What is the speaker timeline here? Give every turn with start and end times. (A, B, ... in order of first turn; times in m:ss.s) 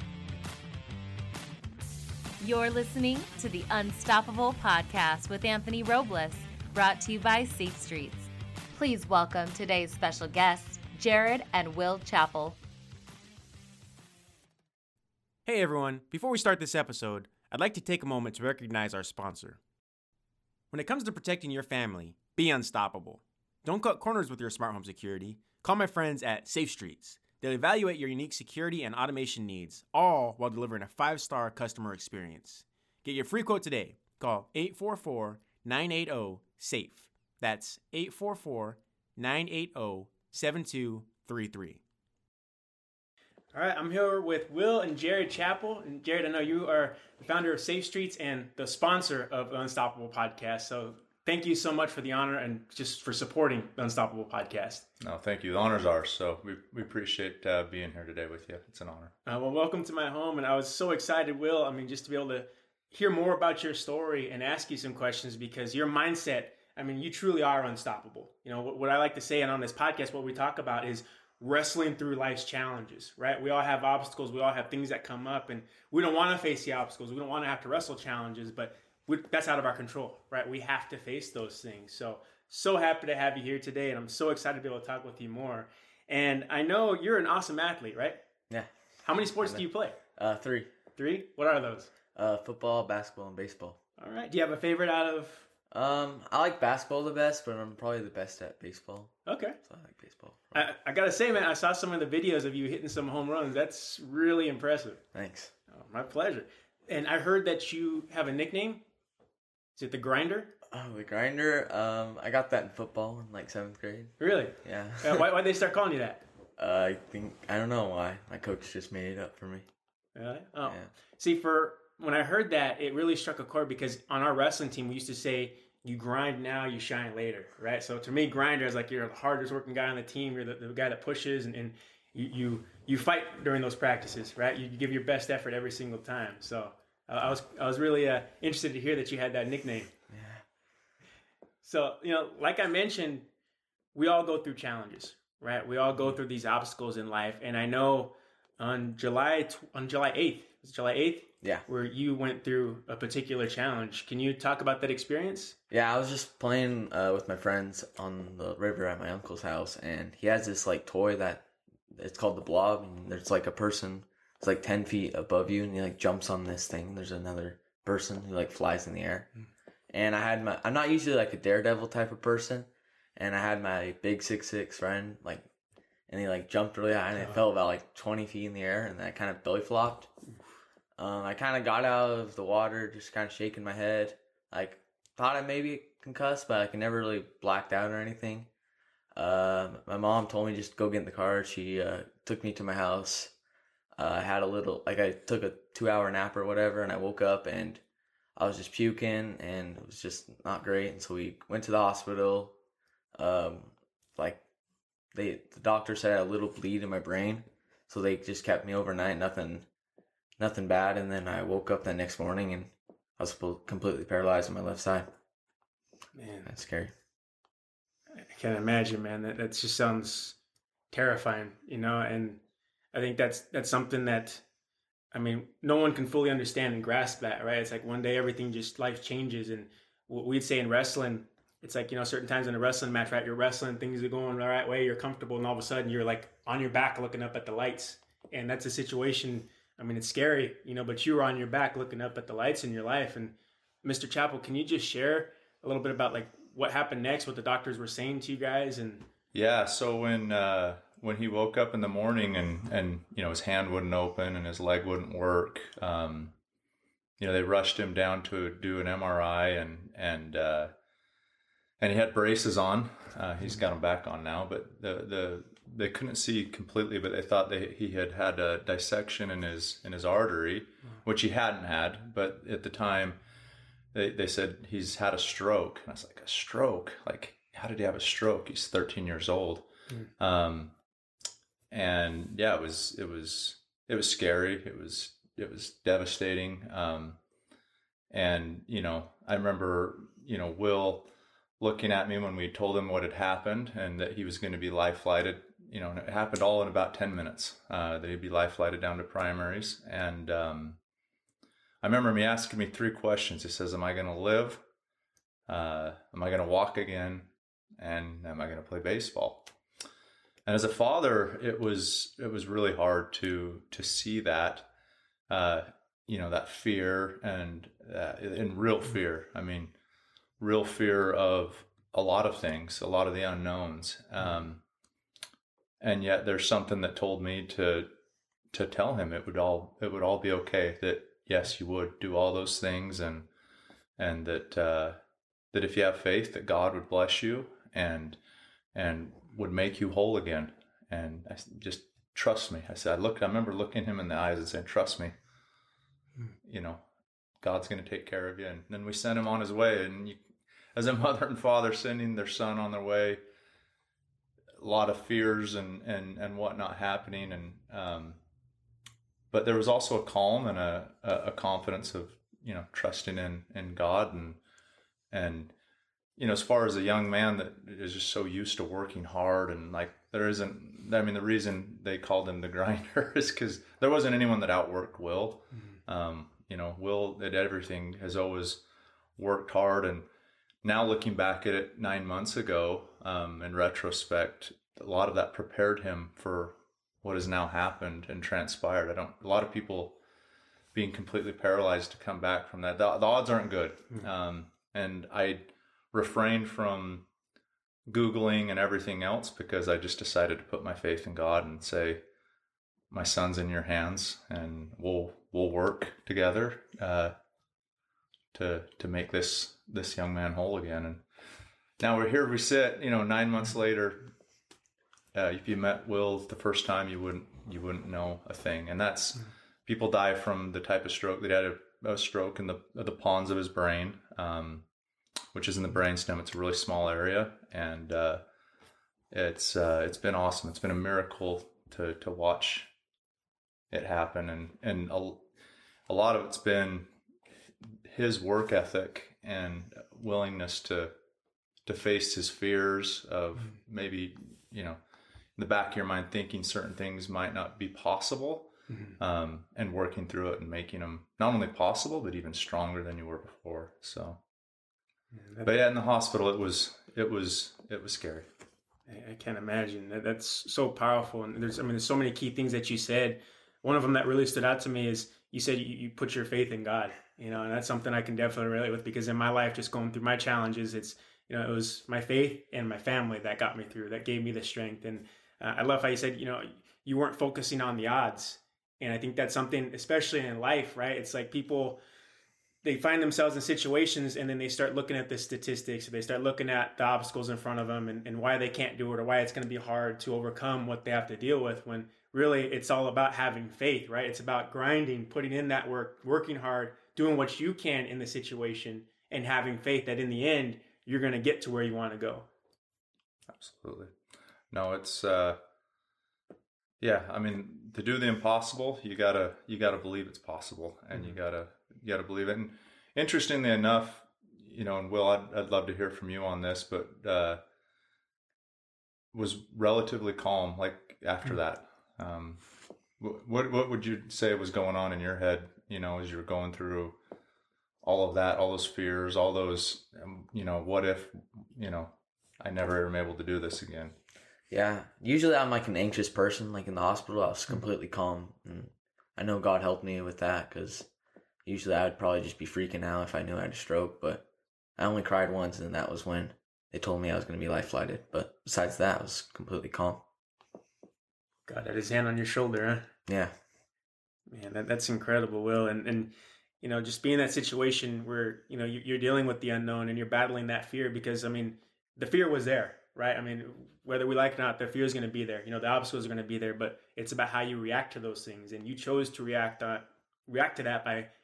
0:02.4-0:12.6 A
0:15.4-0:19.6 B
0:20.7-0:41.8 B
0:43.5-0:54.8 B
0:55.0-0:59.1 C
0:59.2-1:28.2 B
1:29.0-1:30.0 B
1:29.4-1:30.7 D
1:31.0-1:31.9 B
1:32.1-1:33.8 D
1:34.0-1:35.5 B
1:35.7-1:40.6 D
1:39.2-1:39.6 B
1:40.5-1:45.0 B
1:45.1-1:45.5 D
1:45.7-1:48.8 B
1:49.8-1:50.5 B
1:50.7-1:55.3 D
1:54.2-1:56.2 B
1:56.6-1:59.7 D
2:00.2-2:19.9 B
2:00.6-2:00.9 D
2:20.1-2:20.4 D
2:21.6-2:23.2 B
2:23.9-2:35.6 B
2:35.7-2:49.3 D
2:49.9-2:55.5 D
2:56.1-3:00.1 D
3:01.0-3:08.5 D
3:09.1-3:13.3 D
3:14.0-3:17.8 D
3:18.4-3:22.5 D
3:23.1-3:24.4 D
3:25.1-3:29.7 D
3:30.4-3:35.1 D
3:36.1-3:36.5 B
3:36.4-3:36.9 D
3:38.1-3:40.4 B
3:40.9-3:42.4 B
3:42.9-3:44.4 B
3:45.1-4:09.1 B
4:09.3-4:16.3 C
4:17.2-4:20.7 C
4:21.8-4:33.2 C
4:33.9-4:39.7 C
4:40.2-4:40.7 C
4:41.7-4:47.2 C
4:48.1-4:51.1 C
4:51.6-5:00.8 C
5:01.8-5:04.6 C
5:05.5-5:09.5 C
5:10.4-5:14.7 C
5:15.3-5:19.7 C
5:20.4-5:24.6 C
5:25.8-5:27.9 C
5:28.5-5:33.3 C
5:34.0-5:35.0 C
5:35.5-5:38.2 C
5:38.7-5:45.1 C
5:46.4-5:46.8 C
5:47.4-5:50.2 C
5:50.7-5:53.2 C
5:54.6-5:58.2 C
5:59.3-6:04.4 C
6:05.1-6:05.5 C
6:06.2-6:18.6 C
6:19.2-6:20.1 C
6:20.6-6:30.0 C
6:30.7-6:37.1 C
6:37.9-6:42.0 C
6:42.9-6:47.1 C
6:48.3-6:51.0 C
6:51.8-6:54.1 C
6:55.1-7:04.6 C
7:05.3-7:08.2 C
7:09.1-7:12.7 C
7:13.7-7:15.2 C
7:15.9-7:16.9 C
7:17.8-7:20.9 C
7:21.6-7:24.8 C
7:25.4-7:34.2 C
7:28.7-7:29.0 B
7:35.1-7:35.5 B
7:35.4-7:38.3 C
7:38.9-8:01.8 B
8:02.6-8:22.3 B
8:23.3-8:23.9 C
8:24.5-8:25.4 C
8:26.8-8:37.4 C
8:39.1-8:42.4 C
8:43.0-8:47.0 C
8:47.8-8:53.9 C
8:54.5-9:00.9 D
9:01.4-9:04.2 D
9:04.8-9:10.0 D
9:11.5-9:12.9 B
9:13.1-9:13.3 D
9:14.3-9:31.1 B